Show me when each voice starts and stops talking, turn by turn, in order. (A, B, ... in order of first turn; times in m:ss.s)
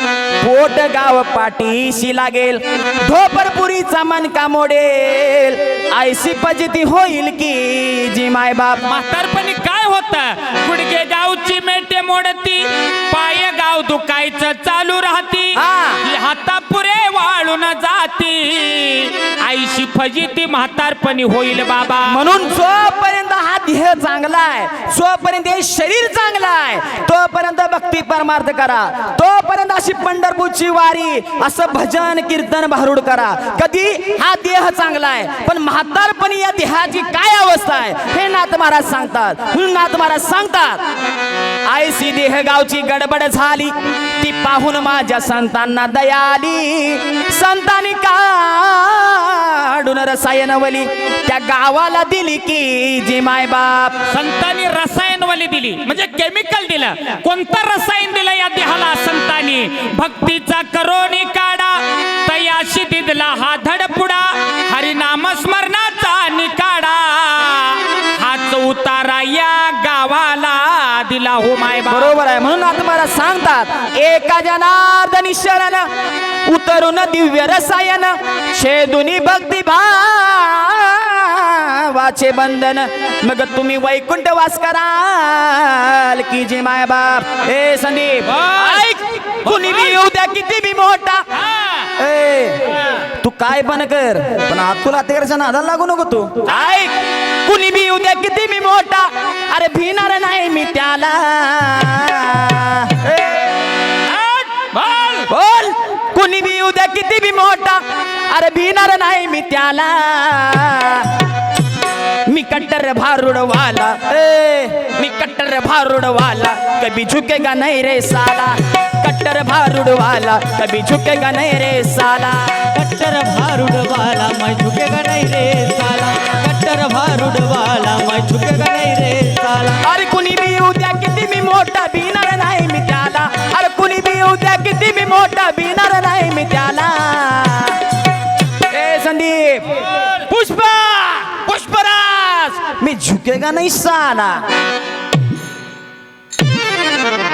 0:00.4-0:08.9 A
0:08.8-0:22.2 B
0:15.5-0:16.0 A
0:22.0-0:40.8 A
0:41.6-0:54.0 A
0:54.1-1:12.1 B
1:11.9-1:15.9 A
1:16.4-1:31.3 A
1:28.3-1:28.9 B
1:29.4-1:30.0 B
1:31.3-1:31.9 B
1:32.0-1:43.5 A
1:44.0-1:45.3 B
1:45.3-1:51.1 A
1:52.3-2:02.6 A
2:02.7-2:09.8 C
2:09.8-2:17.8 A
2:18.7-2:24.4 A